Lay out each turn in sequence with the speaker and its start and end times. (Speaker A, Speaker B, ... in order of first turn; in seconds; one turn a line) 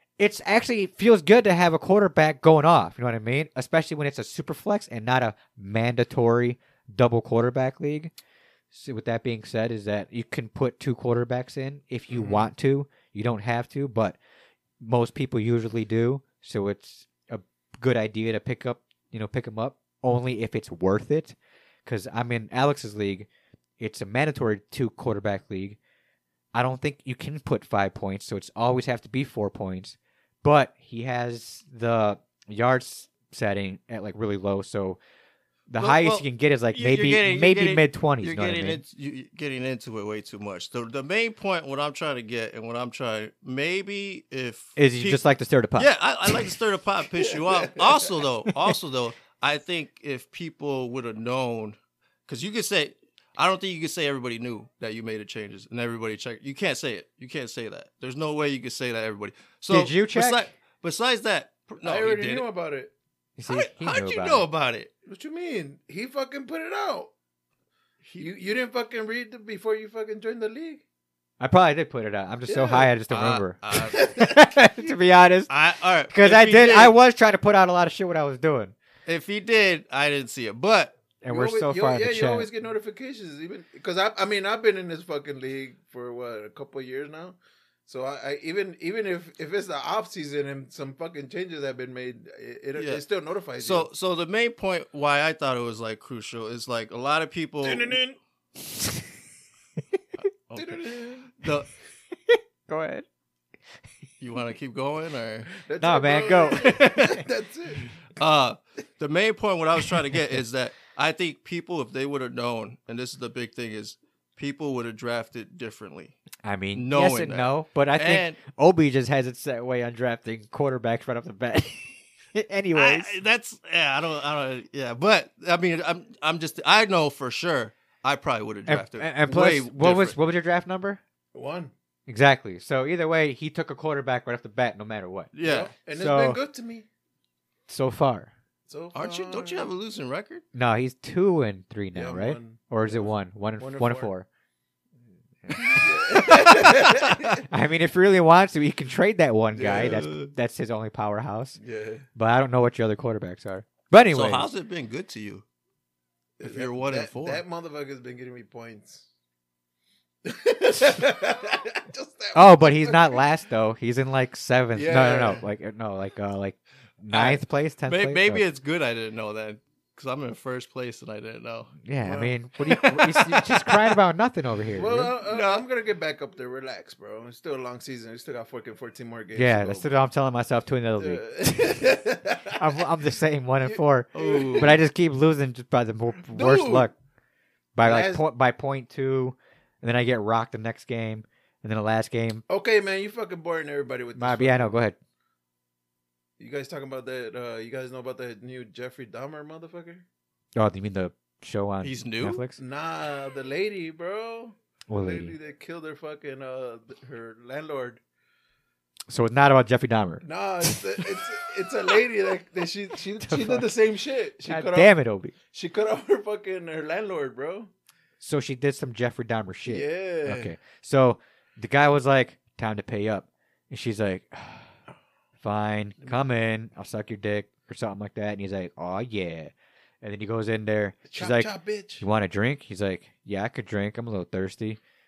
Speaker A: 0.2-8.1
Speaker A: 8.7-14.2
Speaker B: 12.1-12.5
Speaker A: 14.8-23.3
Speaker A: 23.8-25.8
Speaker A: 26.5-35.0
Speaker A: 35.7-38.8
Speaker C: 35.8-45.2
Speaker A: 44.8-45.9
Speaker C: 45.8-62.5
Speaker B: 47.3-48.0
Speaker A: 59.7-60.5
Speaker B: 61.8-62.9
Speaker A: 63.4-64.5
Speaker C: 63.5-64.9
Speaker B: 65.1-67.1
Speaker B: 68.2-70.8
Speaker A: 71.4-75.5
Speaker B: 72.5-72.9
Speaker C: 73.1-74.0
Speaker B: 73.9-74.5
Speaker C: 75.5-77.0
Speaker A: 76.1-78.7
Speaker C: 79.1-81.0
Speaker A: 81.2-82.5
Speaker B: 81.3-93.9
Speaker C: 92.8-93.0
Speaker C: 93.6-98.0
Speaker B: 97.6-98.2
Speaker A: 98.8-99.0
Speaker C: 100.2-101.7
Speaker B: 100.5-101.3
Speaker A: 102.3-103.1
Speaker C: 104.2-105.5
Speaker B: 105.5-107.8
Speaker A: 105.8-107.2
Speaker C: 106.7-107.2
Speaker C: 108.2-116.2
Speaker A: 116.4-123.2
Speaker C: 116.7-118.4
Speaker C: 122.7-130.2
Speaker A: 128.7-131.0
Speaker B: 131.3-131.7
Speaker A: 132.1-135.3
Speaker C: 135.3-135.7
Speaker B: 135.4-136.9
Speaker A: 135.9-136.4
Speaker A: 137.7-138.3
Speaker B: 138.7-139.7
Speaker C: 138.9-140.4
Speaker A: 140.5-144.3
Speaker B: 141.9-144.1
Speaker A: 145.5-151.6
Speaker B: 145.6-147.4
Speaker B: 149.6-150.1
Speaker C: 149.7-150.3
Speaker B: 151.6-152.1
Speaker A: 152.2-154.5
Speaker C: 154.1-155.4
Speaker B: 156.4-159.1
Speaker C: 156.4-157.4
Speaker B: 160.2-163.2
Speaker A: 162.3-168.4
Speaker B: 164.7-165.5
Speaker C: 167.1-171.8
Speaker A: 171.8-175.1
Speaker B: 172.0-172.3
Speaker C: 172.7-173.4
Speaker B: 174.8-179.9
Speaker C: 175.3-175.6
Speaker A: 179.3-186.9
Speaker B: 181.0-182.8
Speaker B: 183.7-184.8
Speaker C: 184.1-184.8
Speaker B: 186.3-186.9
Speaker A: 187.8-192.4
Speaker B: 187.8-188.2
Speaker B: 192.5-194.8
Speaker A: 194.2-195.0
Speaker B: 196.4-200.1
Speaker A: 200.6-202.6
Speaker C: 201.8-202.4
Speaker B: 202.6-208.0
Speaker A: 204.9-205.4
Speaker A: 209.1-210.2
Speaker B: 210.2-214.9
Speaker A: 213.2-213.7
Speaker A: 214.5-215.3
Speaker B: 215.5-217.7
Speaker A: 218.2-224.7
Speaker B: 219.7-220.5
Speaker A: 225.4-234.8
Speaker B: 231.1-232.1